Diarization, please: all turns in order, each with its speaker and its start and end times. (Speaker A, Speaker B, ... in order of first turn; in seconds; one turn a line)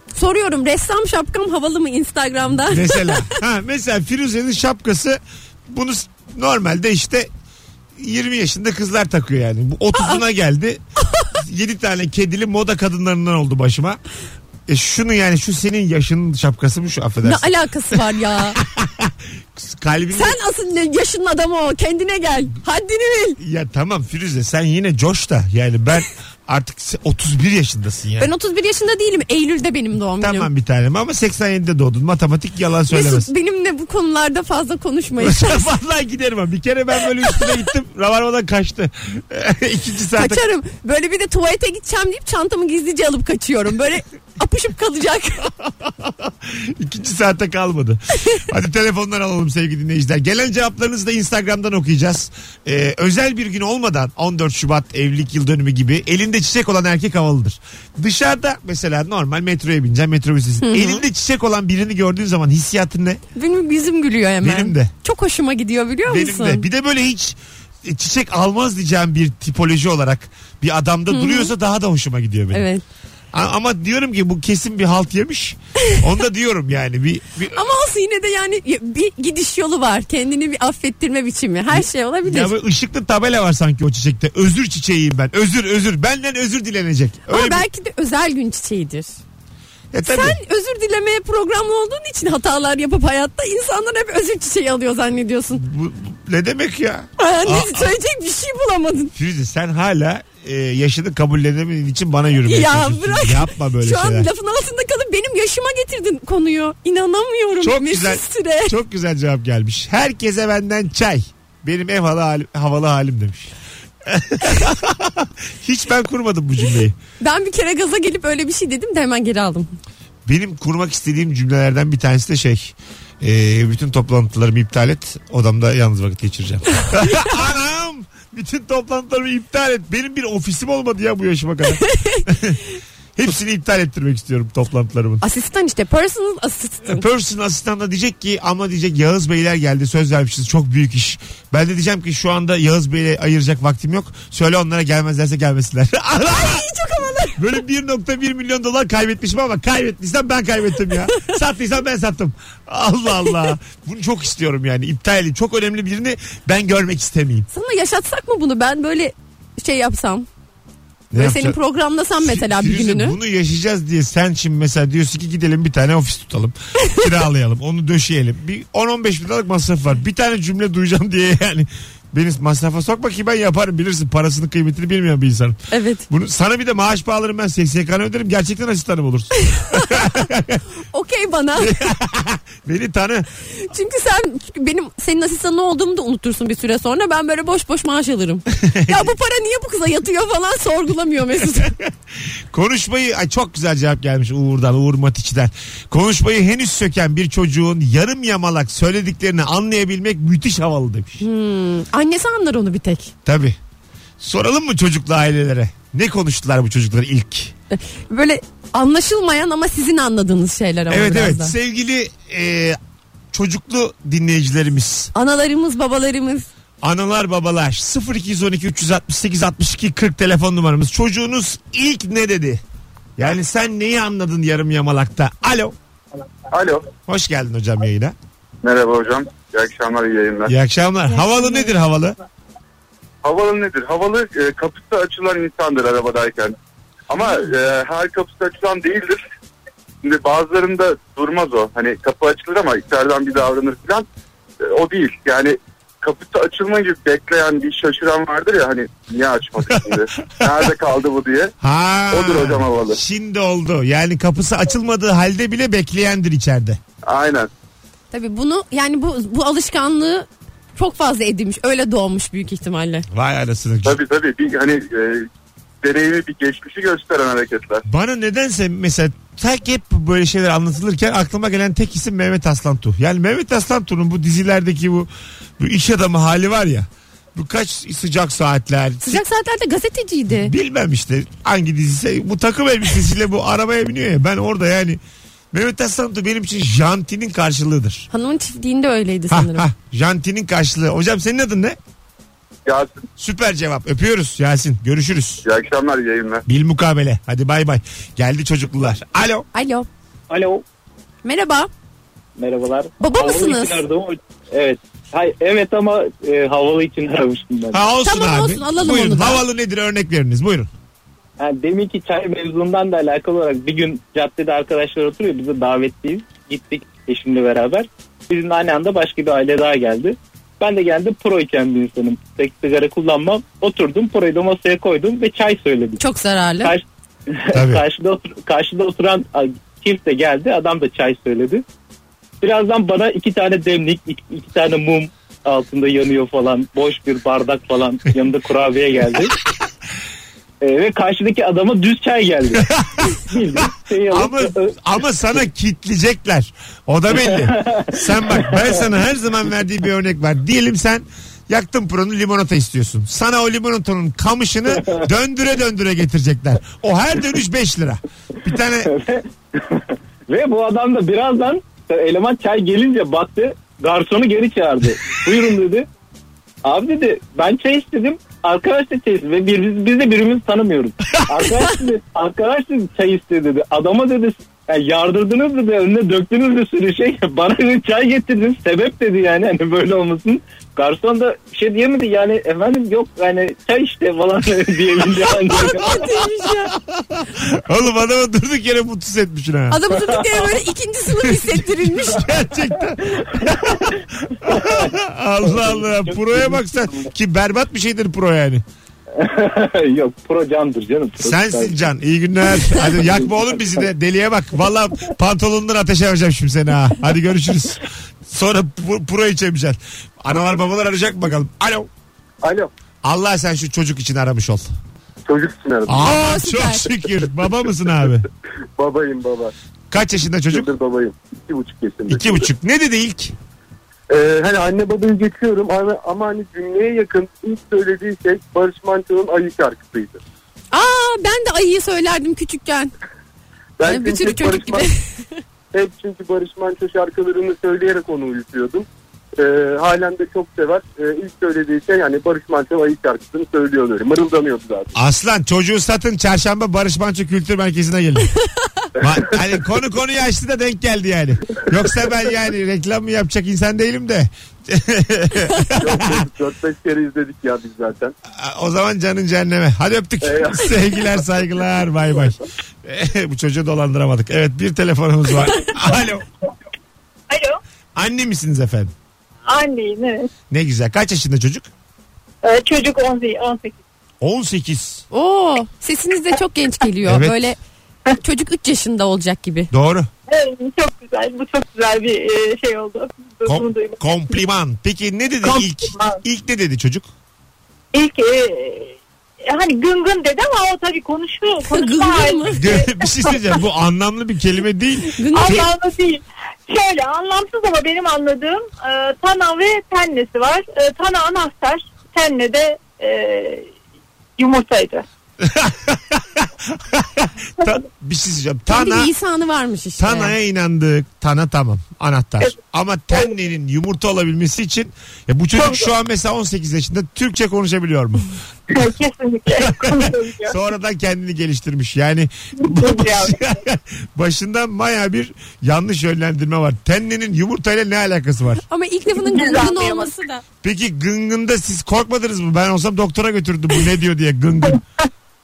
Speaker A: 0.1-3.4
Speaker B: 2.7-7.3
Speaker B: 8.0-10.8
Speaker A: 9.9-10.2
Speaker B: 11.3-14.0
Speaker B: 14.7-18.0
Speaker A: 17.2-18.6
Speaker B: 18.6-20.4
Speaker A: 20.1-23.4
Speaker B: 23.4-28.3
Speaker A: 28.2-30.5
Speaker B: 30.2-33.3
Speaker A: 32.9-35.7
Speaker B: 35.2-40.4
Speaker A: 37.2-37.5
Speaker A: 40.1-45.5
Speaker B: 45.4-63.2
Speaker A: 60.6-61.0
Speaker A: 63.3-66.6
Speaker B: 64.4-64.9
Speaker B: 66.1-72.7
Speaker A: 71.1-71.5
Speaker A: 72.5-72.8
Speaker B: 73.3-77.6
Speaker A: 77.5-82.5
Speaker B: 81.7-87.7
Speaker A: 87.3-89.1
Speaker B: 89.9-90.4
Speaker A: 90.0-95.6
Speaker B: 95.5-97.9
Speaker A: 97.2-99.1
Speaker B: 99.1-104.3
Speaker A: 102.4-108.8
Speaker B: 107.6-113.5
Speaker B: 114.0-117.0
Speaker A: 117.2-119.7
Speaker B: 120.2-132.6
Speaker A: 131.8-132.2
Speaker B: 133.2-135.2
Speaker A: 135.2-137.0
Speaker B: 136.8-146.7
Speaker A: 146.3-147.4
Speaker B: 147.4-157.5
Speaker A: 153.2-153.5
Speaker A: 157.5-160.3
Speaker B: 161.1-161.6
Speaker A: 161.1-163.2
Speaker B: 162.2-180.6
Speaker A: 175.7-176.1
Speaker A: 179.4-180.2
Speaker A: 180.9-181.8
Speaker B: 181.6-183.3
Speaker A: 183.5-191.7
Speaker B: 188.6-189.1
Speaker B: 192.5-201.2
Speaker A: 201.2-203.1
Speaker B: 203.2-203.6
Speaker B: 204.2-207.5
Speaker A: 207.7-211.5
Speaker B: 210.9-212.8
Speaker B: 213.3-215.1
Speaker A: 215.1-216.5
Speaker B: 216.8-222.6
Speaker B: 223.2-225.7
Speaker C: 226.5-226.9
Speaker B: 227.1-228.1
Speaker C: 228.6-230.5
Speaker B: 230.5-232.2
Speaker C: 233.2-236.5
Speaker C: 237.1-239.2
Speaker C: 240.0-244.1
Speaker C: 244.6-251.5
Speaker B: 249.9-250.6
Speaker B: 251.6-256.8
Speaker C: 252.1-253.0
Speaker C: 257.0-257.5
Speaker A: 258.1-263.1
Speaker B: 263.1-264.0
Speaker C: 263.8-265.3
Speaker C: 265.8-267.8
Speaker B: 267.9-279.2
Speaker A: 279.0-280.5
Speaker B: 280.3-285.0
Speaker B: 285.5-288.1
Speaker A: 288.1-289.7
Speaker B: 289.3-291.8
Speaker C: 292.6-293.0
Speaker B: 293.2-295.4
Speaker C: 295.4-296.4
Speaker B: 296.5-299.4
Speaker A: 299.5-299.9
Speaker D: 300.3-300.6
Speaker A: 301.2-301.7
Speaker D: 302.4-307.8
Speaker A: 303.0-303.8
Speaker B: 307.7-310.7
Speaker A: 308.0-309.4
Speaker D: 311.4-326.0
Speaker A: 326.0-326.7
Speaker D: 326.6-331.6
Speaker B: 327.5-327.8
Speaker D: 332.4-339.3
Speaker D: 340.6-344.7
Speaker B: 342.6-358.9
Speaker D: 347.2-348.6
Speaker D: 354.7-355.0
Speaker D: 358.8-365.9
Speaker D: 366.6-385.9
Speaker A: 385.5-386.7
Speaker B: 385.5-389.8
Speaker A: 389.7-392.3
Speaker D: 390.0-390.4
Speaker B: 391.2-398.6
Speaker D: 394.4-394.9
Speaker D: 395.4-396.6
Speaker D: 399.1-401.8
Speaker B: 401.2-411.9
Speaker C: 412.4-412.7
Speaker B: 413.0-414.6
Speaker C: 415.3-416.1
Speaker B: 415.9-418.2
Speaker A: 416.0-416.9
Speaker C: 418.8-419.5
Speaker B: 419.9-420.7
Speaker C: 420.5-422.4
Speaker B: 422.1-423.3
Speaker C: 424.1-430.2
Speaker A: 430.7-432.9
Speaker C: 433.8-434.8
Speaker A: 433.8-435.1
Speaker C: 435.7-438.8
Speaker C: 439.4-444.9
Speaker B: 444.9-448.3
Speaker B: 449.0-456.2
Speaker C: 455.8-458.1
Speaker B: 458.4-466.2
Speaker C: 460.2-460.7
Speaker E: 467.3-467.6
Speaker B: 467.9-468.9
Speaker E: 469.4-470.3
Speaker B: 470.5-471.7
Speaker E: 472.4-473.8
Speaker B: 474.2-475.0
Speaker A: 475.1-477.6
Speaker B: 477.0-477.5
Speaker A: 478.2-479.7
Speaker B: 479.7-480.1
Speaker E: 480.3-484.4
Speaker B: 483.4-487.1
Speaker E: 485.4-486.2
Speaker E: 487.9-493.5
Speaker A: 491.6-492.8
Speaker B: 492.5-495.7
Speaker A: 495.1-495.7
Speaker E: 495.3-503.7
Speaker E: 504.4-505.0
Speaker B: 505.4-509.1
Speaker A: 508.7-510.3
Speaker B: 510.0-518.3
Speaker E: 515.5-515.9
Speaker E: 518.7-520.6
Speaker B: 519.6-528.6
Speaker E: 522.6-523.5
Speaker A: 528.7-530.4
Speaker E: 529.1-530.1
Speaker B: 530.6-534.8